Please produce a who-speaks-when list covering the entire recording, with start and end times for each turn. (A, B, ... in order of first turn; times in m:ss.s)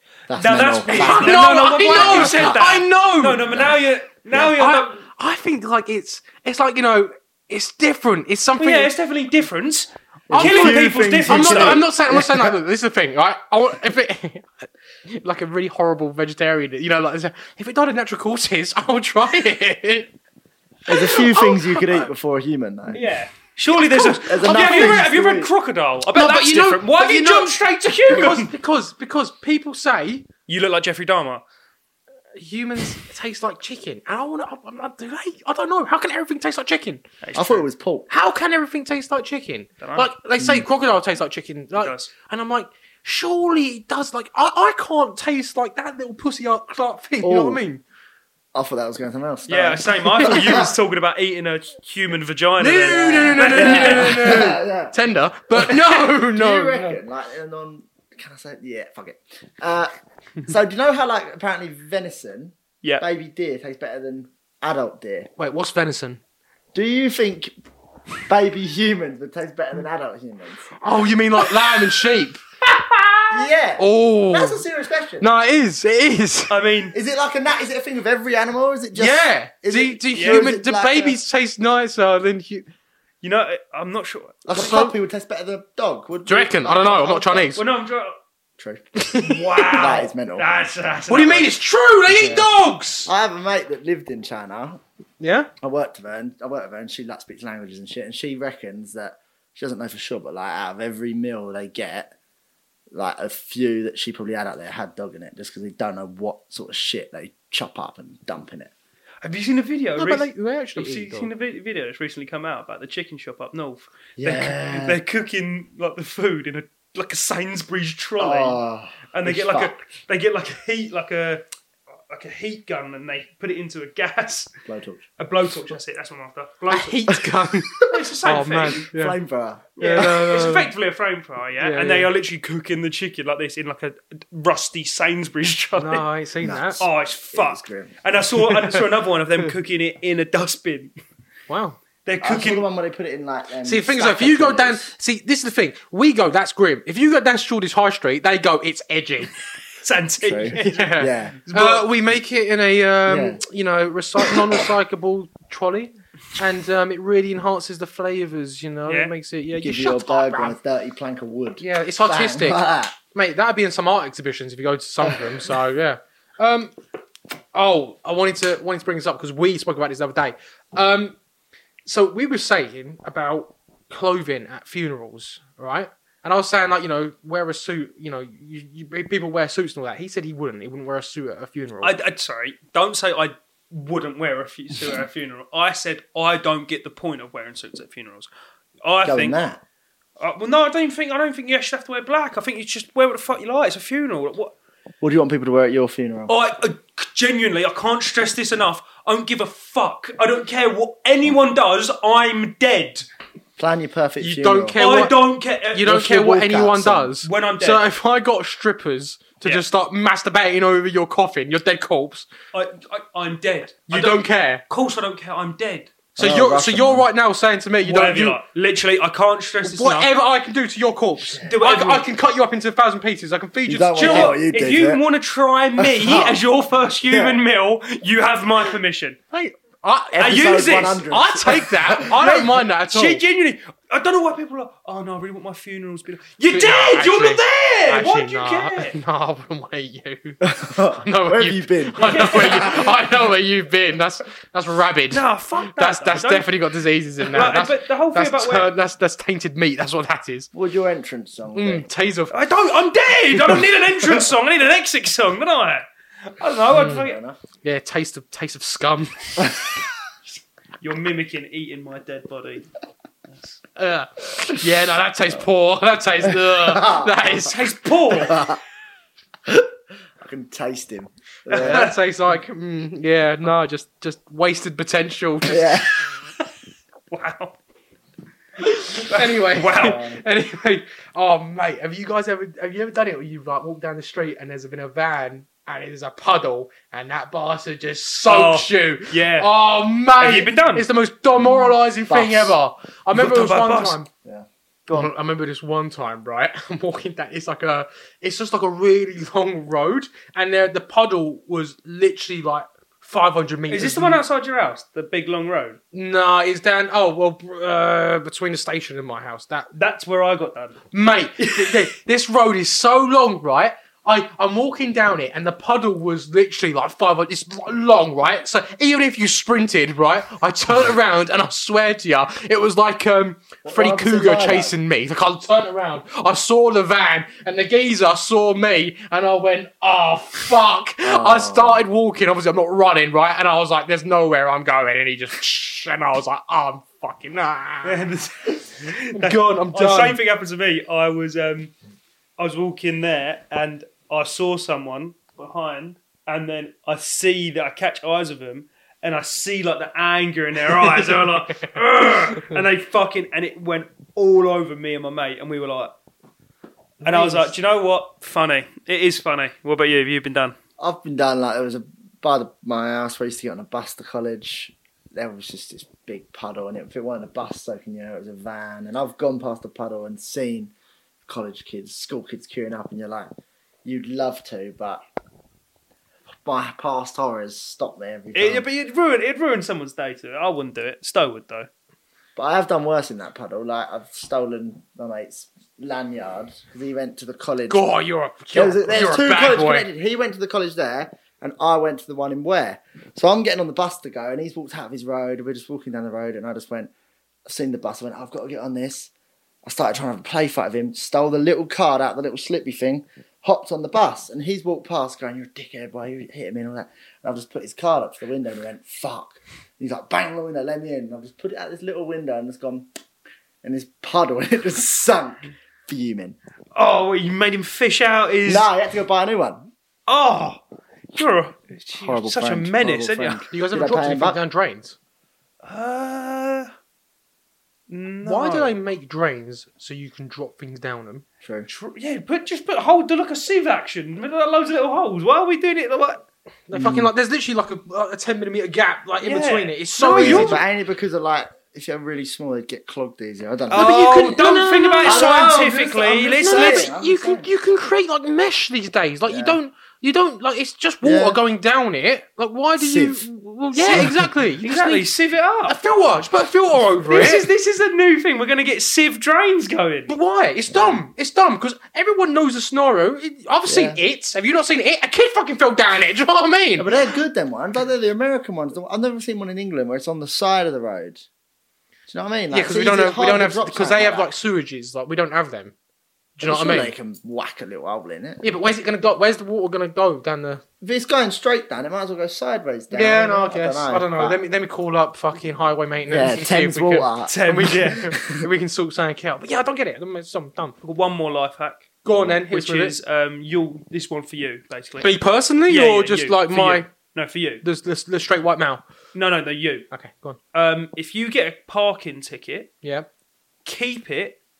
0:00.3-0:02.7 A
0:00.4-0:05.0 B
0:00.9-0:03.6 C
0:04.6-0:08.9 C
0:08.6-0:11.8 B
0:10.3-0:12.6 A
0:10.3-0:20.1 C
0:20.9-0:23.0 A
0:20.9-0:22.1 C
0:22.9-0:28.5 B
0:23.9-0:25.1 C
0:24.1-0:25.5 A
0:26.1-0:30.3 C
0:30.5-0:31.4 B
0:32.4-0:37.0 C
0:37.2-0:37.7 B
0:37.4-0:38.1 A
0:38.1-0:47.8 C
0:39.8-0:40.1 B
0:40.4-0:40.7 A
0:41.8-0:42.1 B
0:47.2-0:47.6 A
0:48.5-0:50.7 A
0:49.5-0:54.4 B
0:50.2-0:50.6 C
0:52.6-0:57.0 C
0:52.8-0:55.0 A
0:55.5-0:59.9 A
1:00.4-1:05.3 A
1:05.4-1:06.2 C
1:06.7-1:07.5 A
1:08.3-1:10.8 A
1:10.8-1:14.6 C
1:13.3-1:15.3 A
1:15.2-1:16.6 C
1:16.5-1:17.0 B
1:16.9-1:21.2 A
1:19.0-1:22.7 C
1:20.1-1:20.4 B
1:23.2-1:24.4 B
1:24.4-1:27.6 A
1:24.6-1:25.0 C
1:26.3-1:27.6 C
1:27.6-1:28.2 B
1:28.6-1:29.2 A
1:29.0-1:30.0 C
1:29.2-1:31.5 B
1:29.7-1:30.5 A
1:31.1-1:33.1 C
1:32.1-1:32.5 A
1:33.1-1:34.8 A
1:35.2-1:35.5 C
1:35.6-1:42.2 A
1:42.9-1:48.7 A
1:49.2-1:58.6 B
1:50.0-1:51.3 C
1:54.2-1:55.0 A
1:58.2-1:59.8 A
1:59.1-2:01.4 B
2:02.1-2:04.5 B
2:04.7-2:05.1 A
2:05.2-2:07.1 B
2:06.7-2:09.2 C
2:07.8-2:08.8 B
2:08.8-2:10.3 A
2:09.8-2:16.0 B
2:09.8-2:10.7 C
2:11.6-2:12.1 C
2:15.8-2:16.8 C
2:16.4-2:18.0 A
2:16.8-2:20.9 B
2:21.5-2:21.8 C
2:22.1-2:22.7 B
2:22.2-2:24.9 A
2:23.6-2:29.3 C
2:29.8-2:31.9 B
2:30.2-2:31.4 A
2:30.6-2:40.6 C
2:33.1-2:33.4 A
2:38.9-2:39.1 B
2:39.6-2:43.0 A
2:41.6-2:46.7 C
2:45.0-2:45.3 A
2:47.5-2:51.2 C
2:51.8-3:02.0 C
3:01.8-3:08.3 B
3:08.8-3:09.4 B
3:09.0-3:09.6 A
3:10.2-3:14.6 B
3:15.0-3:16.3 A
3:16.3-3:23.1 B
3:23.6-3:24.8 A
3:24.2-3:32.3 C
3:24.8-3:25.9 B
3:25.8-3:27.1 A
3:27.2-3:27.8 B
3:32.5-3:35.9 B
3:33.9-3:34.6 C
3:36.2-3:38.4 C
3:36.2-3:37.1 A
3:37.8-3:40.1 B
3:39.6-3:44.4 C
3:41.4-3:42.1 B
3:43.7-3:45.0 A
3:44.0-3:49.2 B
3:45.8-3:46.4 A
3:47.1-3:47.4 A
3:49.3-3:53.2 C
3:50.1-3:52.2 A
3:50.2-3:51.0 B
3:52.1-3:59.0 B
3:56.5-4:10.5 C
4:00.4-4:03.0 A
4:02.0-4:02.9 B
4:05.1-4:06.5 B
4:07.3-4:08.7 B
4:10.5-4:11.9 A
4:11.6-4:12.4 C
4:12.3-4:17.2 B
4:16.7-4:17.0 C
4:16.8-4:17.4 A
4:17.6-4:19.5 C
4:20.8-4:22.7 B
4:23.3-4:23.6 B
4:23.8-4:27.7 C
4:26.2-4:27.5 A
4:27.4-4:28.4 B
4:28.2-4:28.6 A
4:30.2-4:31.9 A
4:31.5-4:32.0 B
4:31.5-4:35.9 C
4:35.5-4:35.9 A
4:37.1-4:37.6 B
4:38.6-4:54.1 C
4:39.0-4:40.0 B
4:39.8-4:40.2 A
4:48.3-4:49.5 B
4:50.2-4:50.8 B
4:51.4-4:52.6 A
4:53.1-4:54.0 B
4:54.9-5:04.2 C
5:03.7-5:05.8 B
5:05.9-5:09.7 C
5:09.8-5:10.8 B
5:10.9-5:38.1 C
5:11.4-5:11.8 B
5:23.6-5:24.7 A
5:31.0-5:31.8 A
5:37.8-5:41.7 B
5:39.1-5:40.2 C
5:42.4-5:55.9 B
5:50.9-5:51.8 C
5:57.0-6:00.6 B
5:57.0-5:57.5 A
6:00.8-6:10.7 A
6:11.3-6:13.3 A
6:13.8-6:15.0 A
6:16.4-6:18.6 A
6:18.3-6:21.7 B
6:22.4-6:27.8 A
6:27.7-6:29.9 C
6:28.5-6:36.9 A
6:37.5-6:39.1 A
6:39.6-6:52.9 A
6:53.6-6:56.4 A
6:56.8-6:58.7 B
6:58.5-6:59.7 A
7:00.1-7:03.4 B
7:02.0-7:04.4 A
7:03.5-7:05.0 C
7:05.6-7:06.7 B
7:07.9-7:08.8 B
7:08.2-7:11.2 C
7:11.4-7:11.7 A
7:11.7-7:16.2 B
7:16.7-7:20.6 C
7:16.7-7:17.1 A
7:19.2-7:20.6 B
7:20.1-7:24.5 A
7:23.7-7:26.9 B
7:23.7-7:25.6 C
7:25.0-7:27.5 A
7:26.4-7:35.1 C
7:29.3-7:29.6 A
7:31.0-7:31.4 A
7:32.8-7:34.4 A
7:34.6-7:35.8 B
7:35.7-7:37.5 C
7:37.1-7:40.1 B
7:40.1-7:46.9 C
7:40.7-7:41.0 A
7:43.7-7:44.0 A
7:46.8-7:51.2 A
7:52.1-7:54.3 A
7:52.5-7:55.7 C
7:56.4-7:56.9 C
7:56.4-7:58.5 A
7:58.4-8:00.6 C
8:00.8-8:04.4 A
8:02.9-8:10.8 C
8:06.1-8:08.5 A
8:07.3-8:08.1 B
8:10.8-8:15.1 B
8:12.0-8:13.0 C
8:15.0-8:16.9 C
8:15.7-8:17.6 B
8:17.6-8:18.8 C
8:19.1-8:19.9 B
8:19.9-8:20.4 C
8:20.5-8:22.7 B
8:22.8-8:23.1 C
8:23.6-8:24.4 B